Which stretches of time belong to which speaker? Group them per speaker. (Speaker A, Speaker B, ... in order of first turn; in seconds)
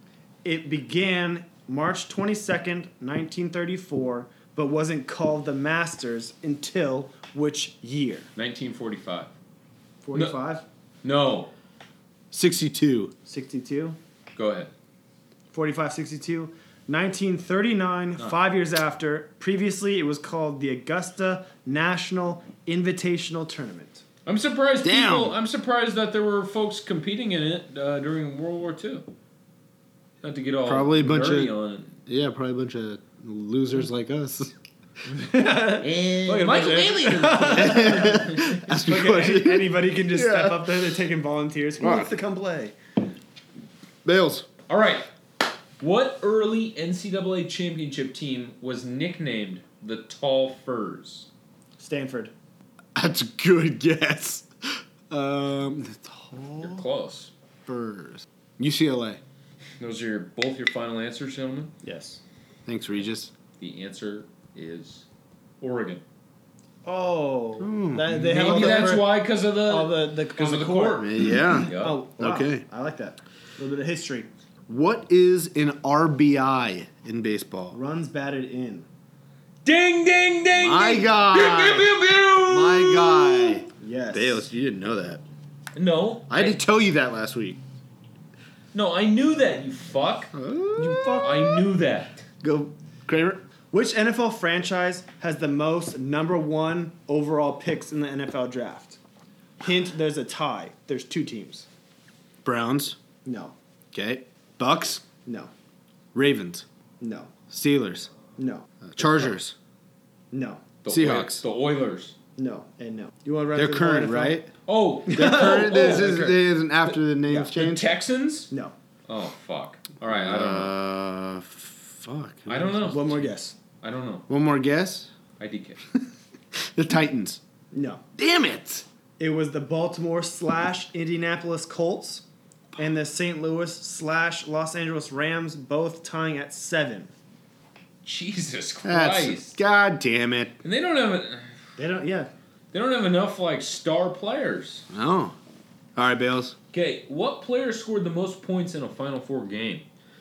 Speaker A: 0.5-8.3, 10.0-10.6, 13.3-14.0, 15.5-24.0, 35.3-42.8, 51.8-52.3, 61.8-62.2, 66.8-74.3, 77.7-78.9, 83.8-84.5, 90.8-91.5, 92.4-92.7, 93.7-99.0, 99.6-101.7, 103.2-103.5, 105.3-105.5, 107.0-107.3, 108.4-108.7, 110.3-110.6, 112.4-114.4, 115.1-116.0, 122.9-123.6, 127.7-128.0, 129.2-132.2, 132.8-137.1, 141.8-142.3
Speaker B: 8.4-9.3, 10.1-10.4, 11.0-11.5, 14.4-14.7, 24.3-29.1, 30.2-32.0, 35.6-38.4, 44.7-45.1, 45.8-51.3, 56.6-57.3, 59.8-61.7, 63.6-65.1, 65.6-66.0, 68.2-72.0, 79.7-83.6, 85.8-86.6, 88.7-90.3, 91.2-92.2, 110.8-112.2, 114.7-116.4, 117.5-118.5, 119.1-120.8, 122.5-123.1, 123.8-124.3, 125.4-125.8, 138.0-139.6, 140.6-141.5, 142.7-144.8, 146.7-149.8
Speaker C: 12.3-13.1, 24.8-25.4, 30.6-31.5, 32.1-34.5, 37.5-40.9, 41.8-42.1, 44.0-44.5, 53.0-54.5, 55.1-56.9, 57.7-59.2, 62.7-63.3, 67.6-69.0, 70.9-72.6, 74.7-77.8, 80.5-85.2, 86.3-87.6, 90.3-91.6, 93.1-93.4, 102.5-103.0, 103.9-105.0, 106.1-106.7, 107.5-108.1, 108.9-109.5, 110.9-111.4, 113.5-114.5, 115.1-118.0, 120.1-123.2, 124.3-125.1, 126.6-127.4, 128.2-128.9, 138.8-140.6, 144.9-145.4, 146.0-146.6